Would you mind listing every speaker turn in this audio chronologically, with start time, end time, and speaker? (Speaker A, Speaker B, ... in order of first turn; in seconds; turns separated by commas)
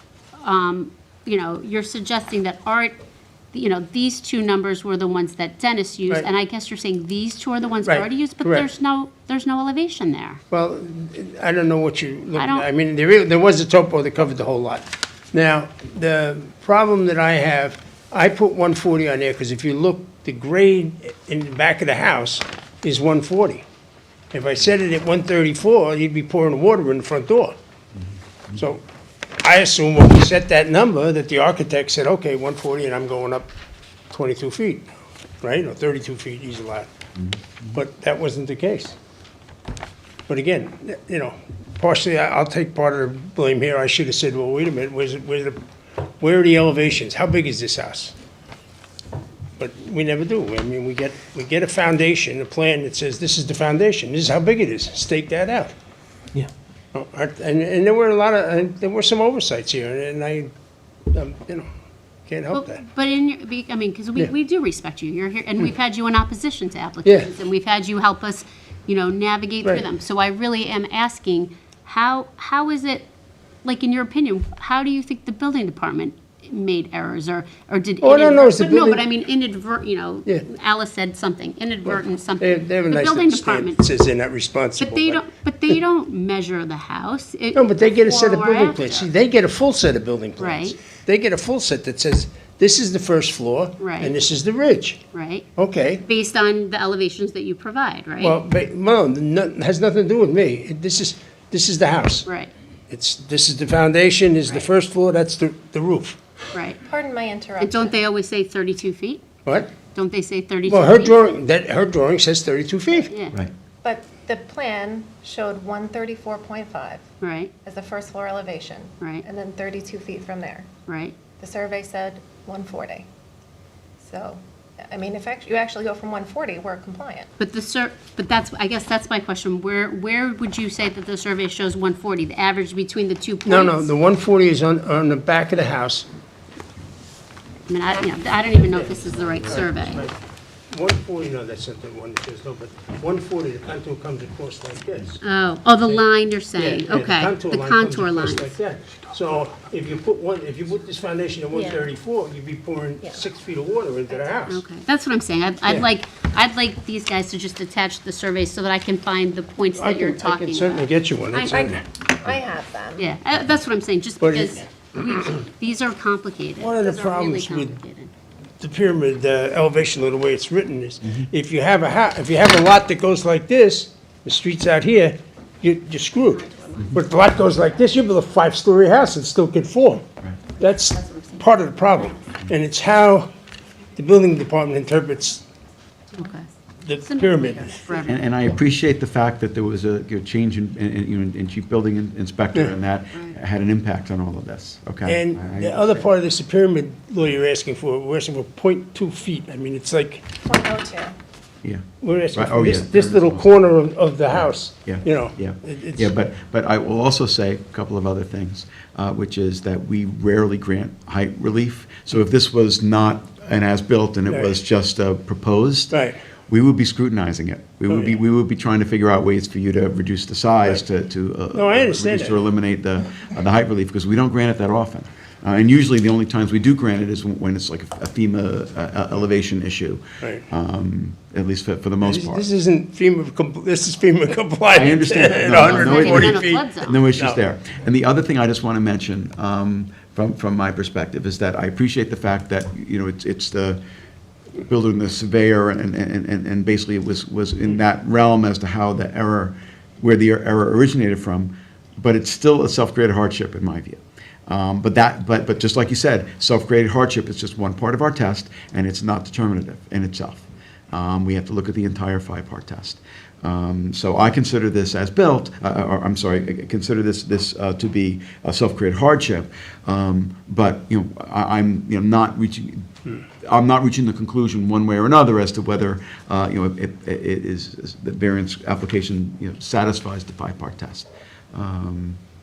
Speaker A: 0.4-3.0, Speaker A: 3.5-10.4, Speaker B: 7.8-8.7, Speaker B: 10.5-23.6, Speaker A: 12.4-12.7, Speaker B: 24.3-27.6, Speaker B: 28.5-28.8, Speaker B: 29.4-33.5, Speaker B: 34.1-34.9, Speaker B: 35.4-36.9, Speaker B: 37.7-39.0, Speaker B: 40.3-45.6, Speaker B: 46.2-48.1, Speaker B: 49.6-55.7, Speaker B: 56.4-60.5, Speaker B: 61.1-61.7, Speaker B: 62.3-62.8, Speaker A: 62.5-73.1, Speaker B: 67.0-67.3, Speaker A: 73.6-83.8, Speaker B: 78.0-79.0, Speaker B: 81.9-85.8, Speaker A: 84.8-89.1, Speaker B: 87.5-95.0, Speaker A: 90.4-90.8, Speaker A: 93.8-94.1, Speaker A: 95.1-95.5, Speaker B: 95.5-96.0, Speaker A: 96.0-98.4, Speaker B: 98.2-102.2, Speaker A: 102.2-102.5, Speaker B: 102.9-106.2, Speaker A: 106.5-106.8, Speaker C: 106.8-108.0, Speaker A: 107.6-109.2, Speaker B: 109.5-109.7, Speaker A: 109.8-111.1, Speaker B: 110.7-113.1, Speaker A: 113.1-113.4, Speaker C: 113.8-117.0, Speaker A: 117.2-117.5, Speaker C: 117.6-120.7, Speaker A: 120.9-121.1, Speaker C: 121.4-123.1, Speaker C: 124.0-127.3, Speaker A: 127.4-133.9, Speaker B: 133.4-136.1, Speaker A: 137.7-140.1, Speaker B: 138.5-140.2, Speaker B: 140.7-145.2, Speaker A: 145.2-148.5, Speaker B: 146.5-154.6, Speaker C: 151.5-151.8, Speaker A: 154.5-161.7, Speaker B: 159.8-161.8, Speaker C: 161.5-163.1, Speaker A: 163.0-168.1, Speaker B: 164.2-164.7, Speaker B: 166.6-167.8, Speaker B: 168.6-180.0, Speaker B: 180.6-183.3, Speaker B: 183.9-185.4, Speaker A: 186.2-186.5, Speaker B: 186.8-187.8, Speaker A: 187.0-188.2, Speaker D: 188.1-195.8, Speaker B: 195.1-200.3, Speaker C: 200.4-201.2, Speaker D: 201.6-203.6, Speaker B: 202.0-206.1, Speaker D: 204.3-215.9, Speaker B: 214.2-214.6, Speaker B: 215.9-216.2, Speaker D: 216.5-232.4, Speaker B: 217.9-218.2, Speaker B: 221.5-222.4, Speaker B: 230.2-230.4, Speaker B: 232.0-237.4, Speaker D: 234.7-243.8, Speaker A: 235.7-237.0, Speaker D: 244.6-272.9, Speaker D: 273.4-282.2